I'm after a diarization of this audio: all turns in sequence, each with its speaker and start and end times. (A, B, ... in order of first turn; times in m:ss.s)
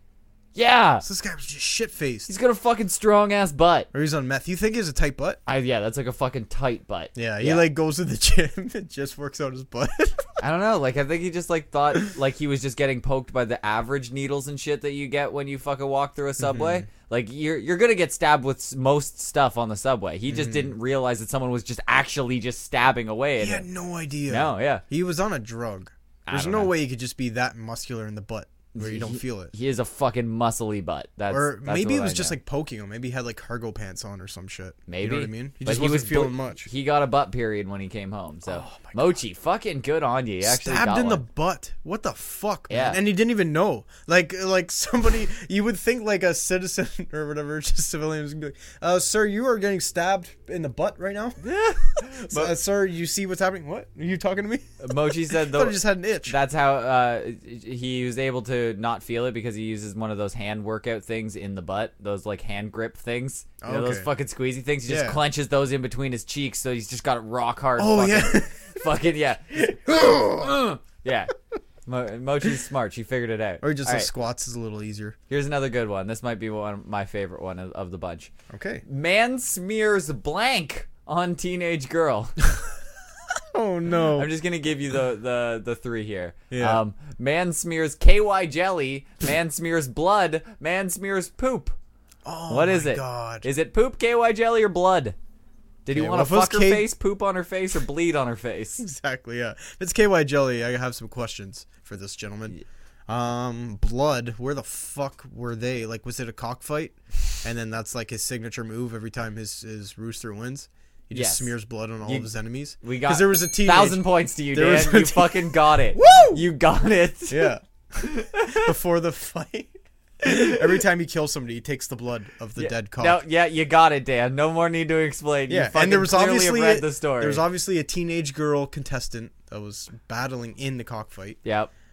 0:00.5-0:01.0 A
0:01.0-0:02.3 B
0:02.3-0:03.9 A
0:03.9-0:05.4 B
0:05.4-0:07.6 A
0:07.1-0:10.3 B
0:10.4-0:23.7 A
0:16.4-0:16.9 B
0:20.3-0:20.7 B
0:23.4-0:29.5 B
0:24.3-0:24.8 A
0:26.3-0:26.7 A
0:28.7-0:32.4 A
0:31.3-0:36.7 B
0:34.9-0:41.2 A
0:38.4-0:39.2 B
0:40.4-0:51.4 B
0:42.7-0:43.0 A
0:51.4-0:52.5 A
0:52.3-0:56.4 B
0:54.8-1:11.3 A
1:03.6-1:04.1 B
1:04.9-1:05.2 B
1:07.8-1:08.7 B
1:09.6-1:10.5 B
1:11.8-1:14.1 A
1:13.6-1:15.2 B
1:15.3-1:18.3 A
1:18.5-1:18.8 B
1:18.8-1:22.4 A
1:23.4-1:24.3 B
1:24.1-1:31.8 A
1:26.5-1:26.8 B
1:32.2-1:33.4 B
1:32.5-1:35.2 A
1:35.8-1:38.8 A
1:35.9-1:36.9 B
1:38.8-1:56.4 B
1:51.1-1:52.3 A
1:52.8-1:58.7 A
1:57.3-1:57.6 B
1:58.4-2:03.2 B
2:02.6-2:07.4 A
2:05.5-2:11.4 B
2:11.4-2:11.7 A